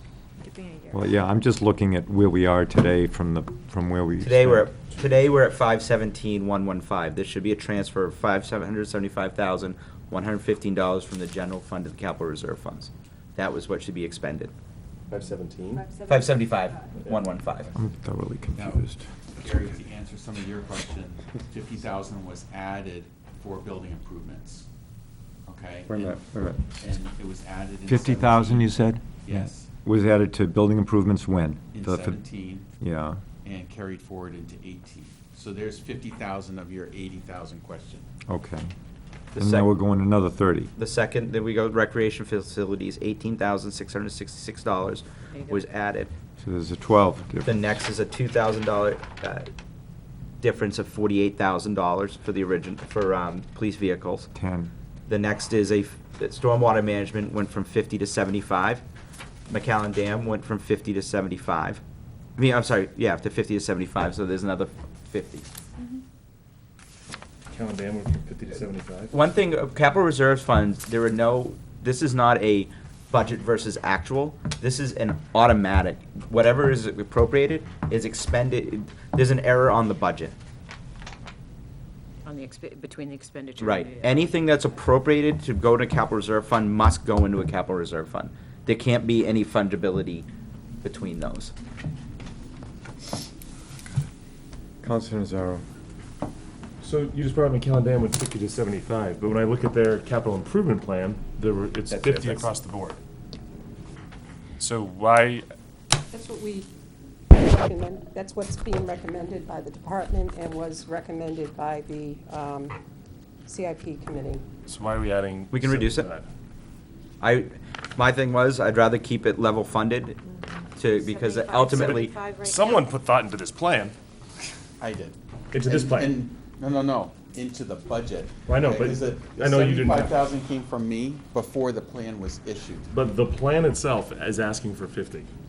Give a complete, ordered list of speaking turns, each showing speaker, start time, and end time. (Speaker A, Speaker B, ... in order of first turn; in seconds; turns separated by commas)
Speaker A: 0.4-1.2, Speaker B: 0.9-4.7, Speaker C: 4.2-14.5, Speaker D: 15.1-15.8, Speaker E: 15.7-16.2, Speaker C: 16.0-17.7, Speaker B: 17.7-19.0, Speaker F: 18.5-24.6, Speaker F: 25.4-26.2, Speaker B: 25.9-26.9, Speaker F: 26.8-29.7, Speaker B: 27.9-32.2, Speaker F: 31.7-32.7, Speaker B: 32.8-33.2, Speaker F: 33.4-38.1, Speaker B: 38.3-38.7, Speaker C: 39.3-39.7, Speaker B: 39.4-40.7, Speaker C: 40.8-46.1, Speaker A: 45.3-45.6, Speaker B: 46.4-47.8, Speaker C: 47.4-49.5, Speaker C: 50.4-54.3, Speaker B: 54.3-54.7, Speaker C: 55.1-58.8, Speaker C: 59.5-61.8, Speaker C: 62.4-65.5, Speaker D: 67.5-69.1, Speaker C: 69.1-80.3, Speaker A: 82.2-84.5, Speaker C: 83.6-90.3, Speaker C: 90.8-91.5, Speaker B: 94.8-95.6, Speaker D: 96.8-103.0, Speaker C: 101.9-102.5, Speaker D: 104.6-105.5, Speaker E: 106.1-106.7, Speaker E: 107.3-112.8, Speaker E: 113.5-114.4, Speaker D: 114.7-116.3, Speaker C: 115.5-116.1, Speaker C: 117.2-120.2, Speaker C: 120.8-122.2, Speaker A: 120.9-123.0, Speaker D: 121.7-124.0, Speaker F: 124.8-132.9, Speaker D: 125.5-126.2, Speaker D: 128.5-130.3, Speaker D: 132.9-135.3